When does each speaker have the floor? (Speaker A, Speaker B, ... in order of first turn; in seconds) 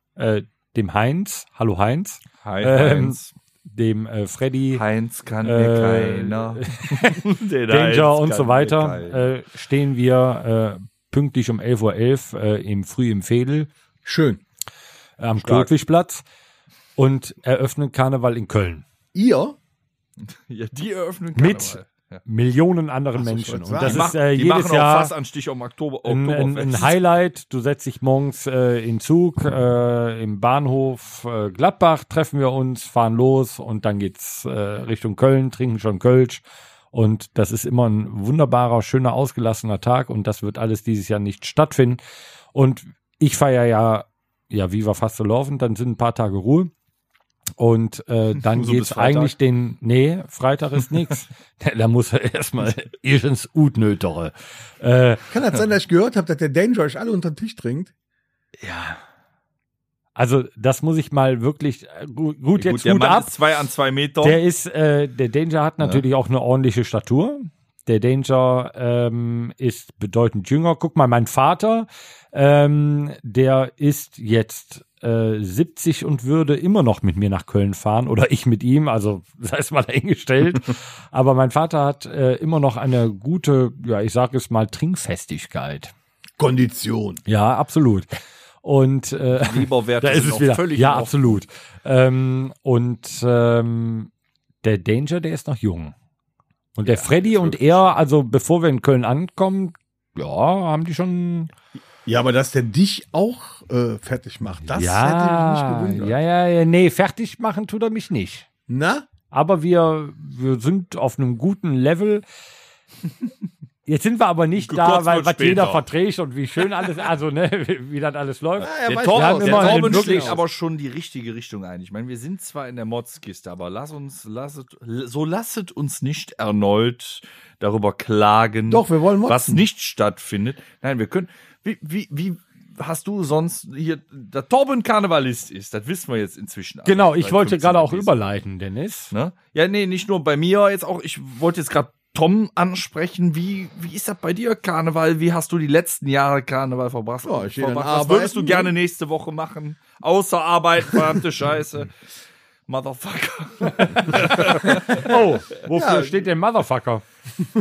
Speaker A: 0.2-4.8, 5.4-13.7, 15.2-16.2, 17.0-18.8, 21.4-25.1, 26.1-36.4, 36.9-42.0, 42.5-46.7, 47.6-55.3, 58.6-59.0, 60.2-63.3, 64.2-85.9, 87.3-94.1, 94.6-95.9, 96.8-101.5, 104.6-108.5, 109.3-112.2, 113.9-120.4, 136.9-139.1, 154.1-157.0
Speaker B: 2.4-3.3, 4.7-9.2, 15.4-15.7, 20.3-22.2, 23.8-27.0, 48.5-49.3, 62.6-64.4, 89.3-91.4, 96.9-97.8, 114.6-115.8, 118.8-138.1, 139.1-151.9, 152.7-155.0
Speaker C: 14.1-14.4, 19.1-19.6, 23.2-24.1, 55.3-57.9, 86.4-87.2, 102.1-106.2, 108.7-109.1, 118.6-120.4, 128.7-129.6, 147.2-148.7, 155.7-156.2